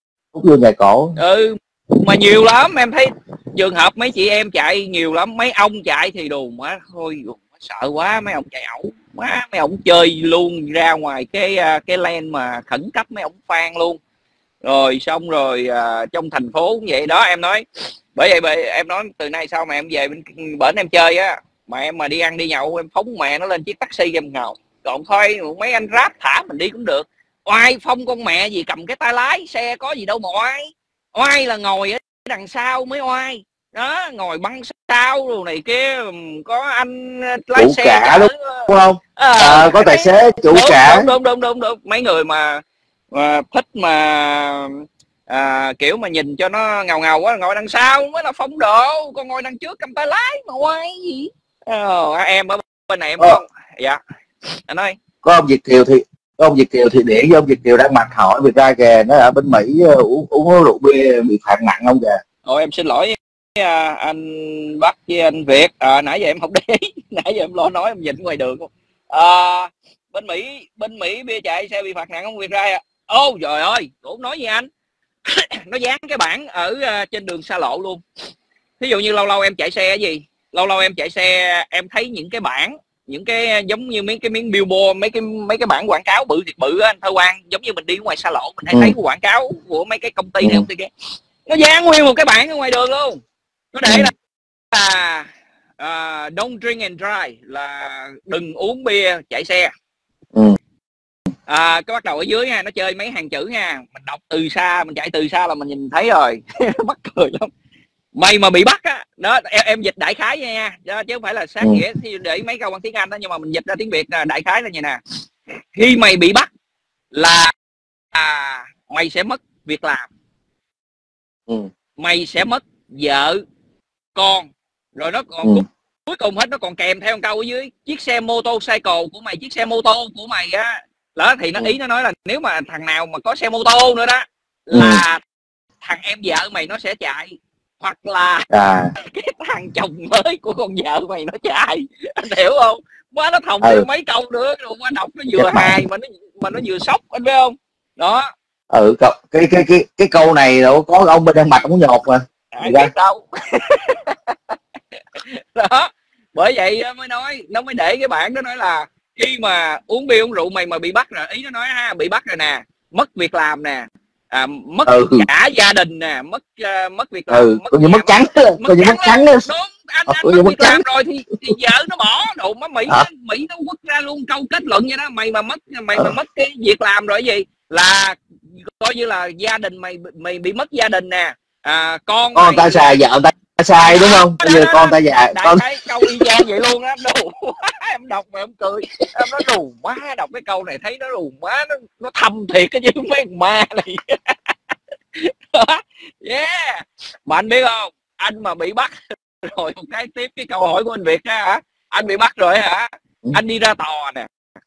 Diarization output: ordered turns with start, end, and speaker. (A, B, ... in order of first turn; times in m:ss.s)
0:00.4-0:01.2 A
0:01.2-0:14.0 B
0:14.6-0:54.0 B
0:37.6-0:41.1 A
0:54.7-0:55.0 B
0:55.2-1:02.2 A
1:02.4-1:14.7 B
1:15.3-1:18.0 B
1:18.8-1:30.9 B
1:31.5-1:33.2 B
1:33.7-1:34.1 B
1:34.7-1:39.7 B
1:41.5-1:47.5 B
1:48.2-1:55.0 B
1:55.8-1:56.5 B
1:57.1-1:57.5 B
1:58.1-2:00.1 B
2:02.0-2:03.4 B
2:04.2-2:15.2 B
2:14.7-2:15.0 A
2:15.8-2:28.3 B
2:18.5-2:18.9 A
2:25.3-2:25.8 A
2:28.7-2:32.9 A
2:32.5-2:34.6 B
2:35.2-3:03.0 B
2:44.9-2:45.3 A
2:47.3-2:49.5 A
2:50.1-2:50.8 A
3:02.4-3:06.4 A
3:03.8-3:14.4 B
3:15.2-3:24.3 B